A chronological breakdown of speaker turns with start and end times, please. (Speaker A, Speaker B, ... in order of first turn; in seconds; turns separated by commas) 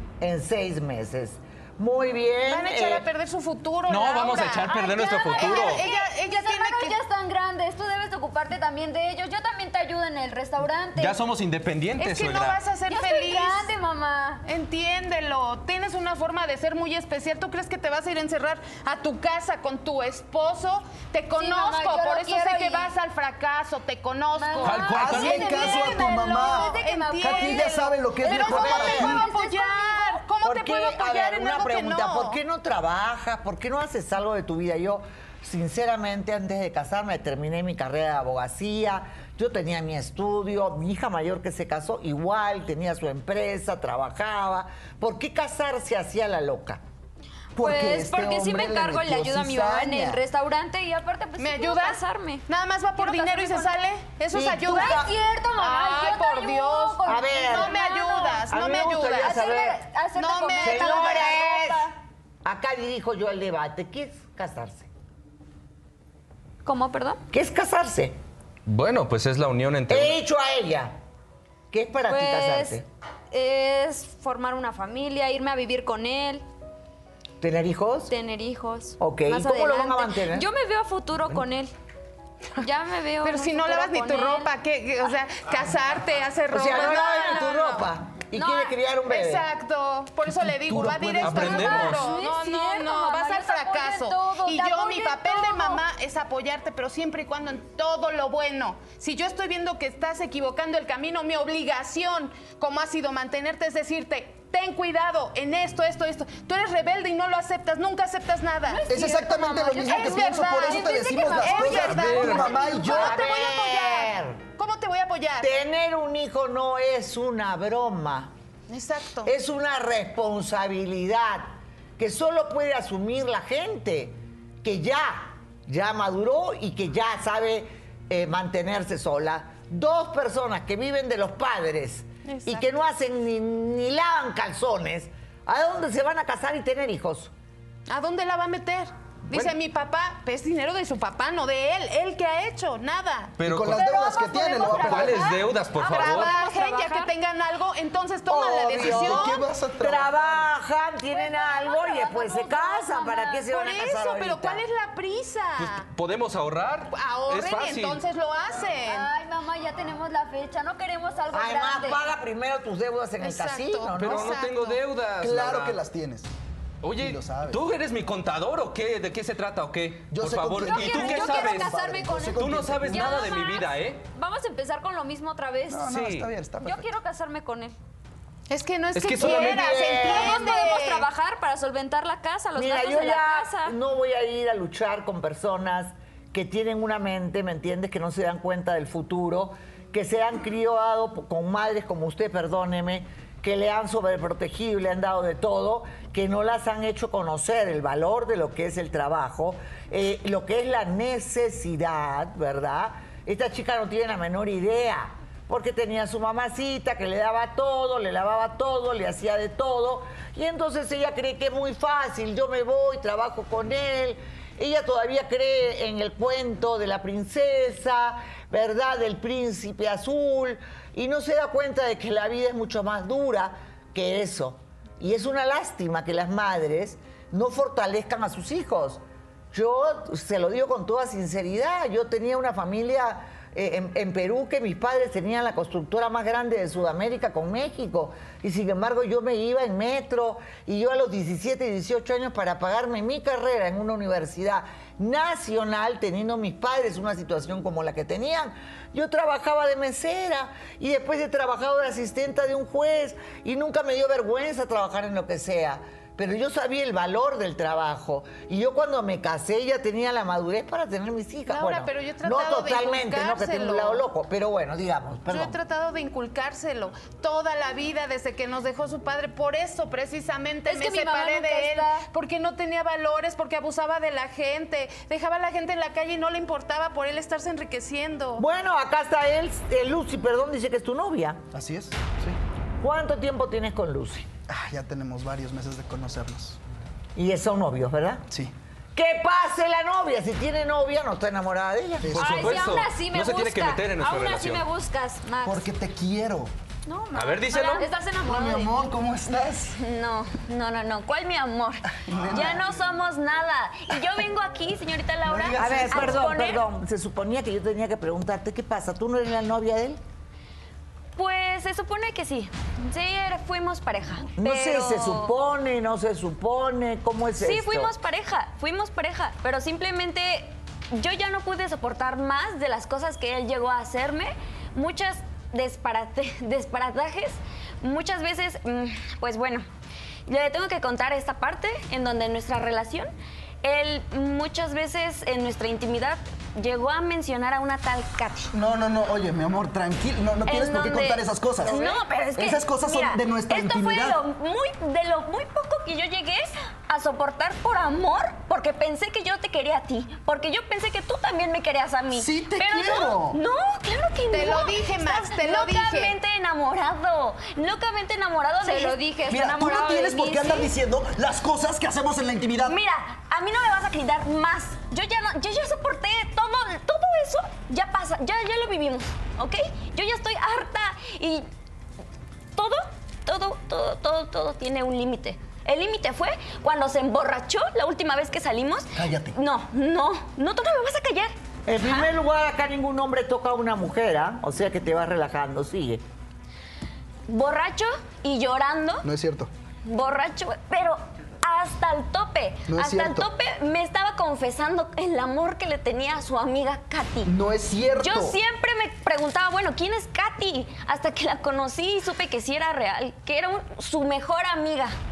Speaker A: 0.2-3.0, Speaker B: 2.5-7.0, Speaker C: 3.9-5.8, Speaker D: 4.4-11.2, Speaker C: 10.9-12.6, Speaker B: 12.0-13.7, Speaker D: 12.9-14.4, Speaker B: 14.4-32.4, Speaker D: 21.4-22.9, Speaker D: 24.4-30.2, Speaker C: 24.6-25.5, Speaker E: 24.9-29.2, Speaker A: 30.4-46.8, Speaker E: 47.5-50.2, Speaker D: 47.5-52.4, Speaker B: 51.4-59.4, Speaker D: 53.0-53.8, Speaker A: 54.3-55.1, Speaker D: 54.6-58.5, Speaker A: 57.0-57.7, Speaker A: 58.5-59.8, Speaker D: 59.2-61.9, Speaker B: 60.1-61.3, Speaker A: 60.6-61.9, Speaker A: 62.4-64.9, Speaker D: 66.6-67.2, Speaker A: 67.3-68.2, Speaker C: 68.7-70.2, Speaker A: 69.9-70.9, Speaker A: 71.7-72.8, Speaker D: 72.1-72.8, Speaker D: 73.3-76.4, Speaker A: 77.4-78.1, Speaker D: 78.1-81.7, Speaker A: 79.0-80.5, Speaker D: 82.6-84.5, Speaker B: 83.2-87.9, Speaker A: 86.5-89.5, Speaker D: 88.3-88.7, Speaker B: 89.0-108.9, Speaker E: 90.3-91.8, Speaker C: 91.2-92.1, Speaker D: 91.4-95.8, Speaker D: 108.7-113.0, Speaker E: 108.9-113.2, Speaker B: 109.8-115.5, Speaker C: 111.6-112.5, Speaker A: 112.8-114.4, Speaker A: 115.4-118.3, Speaker B: 118.7-119.3, Speaker A: 119.2-137.3, Speaker B: 132.2-132.7, Speaker B: 137.9-149.4, Speaker C: 143.4-143.9, Speaker E: 143.4-145.3, Speaker D: 144.6-147.1, Speaker C: 144.7-146.3, Speaker A: 148.3-154.6, Speaker E: 148.8-150.5, Speaker D: 151.1-153.4, Speaker B: 153.4-155.8, Speaker C: 155.6-158.0, Speaker B: 156.9-159.1, Speaker D: 158.8-162.0, Speaker A: 161.3-164.3, Speaker B: 163.2-164.8, Speaker C: 163.9-165.8, Speaker E: 165.2-166.3, Speaker C: 166.8-171.7, Speaker E: 167.0-167.6, Speaker E: 170.1-173.3, Speaker D: 170.6-175.9, Speaker C: 172.3-174.0, Speaker E: 175.7-176.9, Speaker C: 175.9-176.3, Speaker D: 176.6-177.7, Speaker B: 178.5-181.1, Speaker C: 178.9-179.7, Speaker A: 179.2-180.3, Speaker D: 180.0-183.7, Speaker A: 182.5-229.0, Speaker A: 229.5-265.5, Speaker B: 261.5-264.1, Speaker B: 265.3-278.4, Speaker D: 270.6-272.1, Speaker A: 278.4-281.4, Speaker E: 281.5-282.4, Speaker A: 282.8-284.3, Speaker E: 284.5-286.6, Speaker A: 287.1-288.2, Speaker A: 288.9-292.2, Speaker E: 292.0-292.6, Speaker C: 292.1-294.6, Speaker D: 292.1-295.6, Speaker E: 295.4-296.5, Speaker D: 296.9-298.8, Speaker C: 297.1-297.9, Speaker E: 298.2-299.8, Speaker F: 299.8-306.6, Speaker E: 302.0-302.7, Speaker E: 305.2-306.3, Speaker A: 305.6-310.0, Speaker F: 311.1-315.3, Speaker A: 314.4-317.9, Speaker F: 317.4-329.6, Speaker F: 330.3-333.1, Speaker F: 333.6-338.5, Speaker E: 338.5-344.2, Speaker F: 340.4-359.0, Speaker E: 352.1-353.4, Speaker B: 354.3-356.1, Speaker D: 358.6-360.7, Speaker E: 359.3-362.8, Speaker F: 362.6-371.4, Speaker F: 372.5-382.1, Speaker E: 378.9-379.4, Speaker A: 381.7-386.0, Speaker F: 387.3-389.1, Speaker E: 389.0-389.5, Speaker F: 389.8-397.3, Speaker E: 392.7-393.3, Speaker E: 397.2-398.4, Speaker F: 398.0-404.9